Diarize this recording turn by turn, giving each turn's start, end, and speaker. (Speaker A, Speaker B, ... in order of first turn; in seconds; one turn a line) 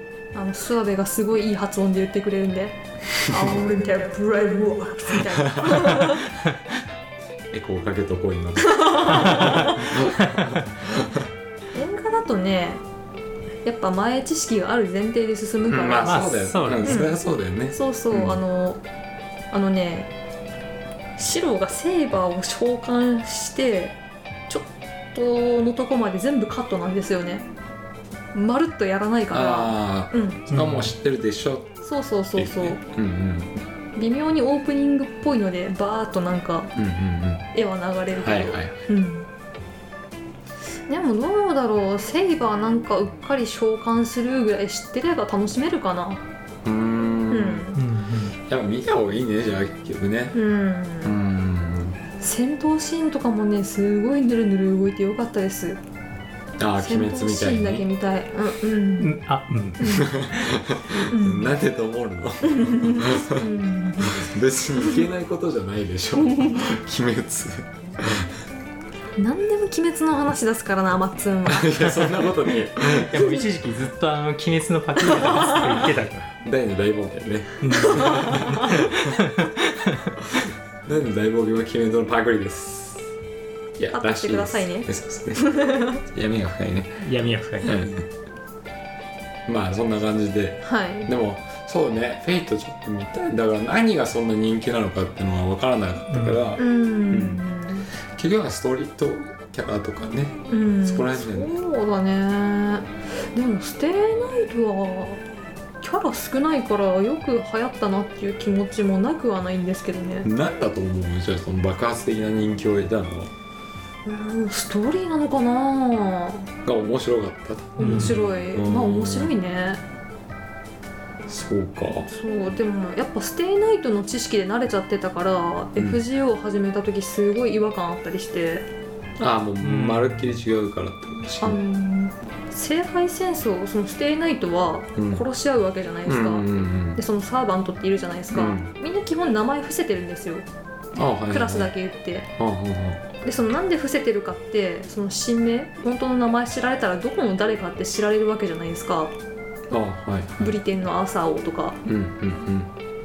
Speaker A: 0.3-6.3
Speaker B: 5.4-6.1
Speaker B: 7.5-11.3
Speaker A: 8.6-9.9
Speaker A: 11.7-12.8
Speaker A: 13.6-16.3
Speaker B: 15.7-18.4
Speaker C: 16.0-17.1
Speaker A: 16.8-17.2
Speaker A: 17.7-18.8
Speaker A: 19.5-20.1
Speaker A: 21.2-24.0
Speaker A: 24.5-27.5
Speaker A: 28.3-30.4
Speaker B: 29.3-31.8
Speaker C: 30.5-30.9
Speaker A: 31.8-32.8
Speaker B: 32.4-33.6
Speaker A: 34.0-36.7
Speaker B: 36.8-37.5
Speaker A: 37.5-39.3
Speaker B: 38.1-38.8
Speaker A: 40.9-46.2
Speaker B: 46.6-47.7
Speaker A: 47.3-47.8
Speaker C: 47.7-48.4
Speaker B: 48.5-50.4
Speaker A: 50.3-51.2
Speaker B: 51.0-52.0
Speaker A: 52.2-55.8
Speaker B: 56.6-57.8
Speaker A: 56.8-59.1
Speaker C: 59.0-60.5
Speaker A: 59.8-60.1
Speaker B: 59.9-68.3
Speaker A: 61.1-61.5
Speaker A: 62.4-65.0
Speaker A: 66.2-66.6
Speaker A: 69.2-72.0
Speaker B: 71.4-73.3
Speaker C: 72.9-76.3
Speaker A: 73.1-73.4
Speaker A: 75.3-75.6
Speaker B: 76.4-79.1
Speaker C: 77.6-80.2
Speaker A: 77.8-78.8
Speaker B: 80.3-83.1
Speaker B: 83.8-87.0
Speaker A: 83.9-86.0
Speaker C: 87.0-87.8
Speaker B: 87.6-88.1
Speaker B: 89.5-101.5
Speaker A: 90.6-91.1
Speaker C: 96.1-96.5
Speaker A: 96.5-97.9
Speaker A: 100.5-105.2
Speaker A: 105.8-110.3
Speaker B: 110.2-113.3
Speaker A: 114.0-116.5
Speaker B: 116.6-119.3
Speaker A: 117.8-119.8
Speaker C: 117.8-118.2
Speaker B: 121.3-122.1
Speaker A: 122.1-128.7
Speaker B: 129.2-131.6
Speaker C: 129.6-130.3
Speaker A: 131.4-140.4
Speaker B: 135.0-135.2
Speaker B: 136.1-137.0
Speaker B: 138.3-138.7
Speaker B: 140.9-141.7
Speaker A: 141.3-142.3
Speaker B: 142.4-143.0
Speaker A: 143.2-149.1
Speaker B: 149.7-150.6
Speaker A: 150.4-151.8
Speaker B: 151.8-152.7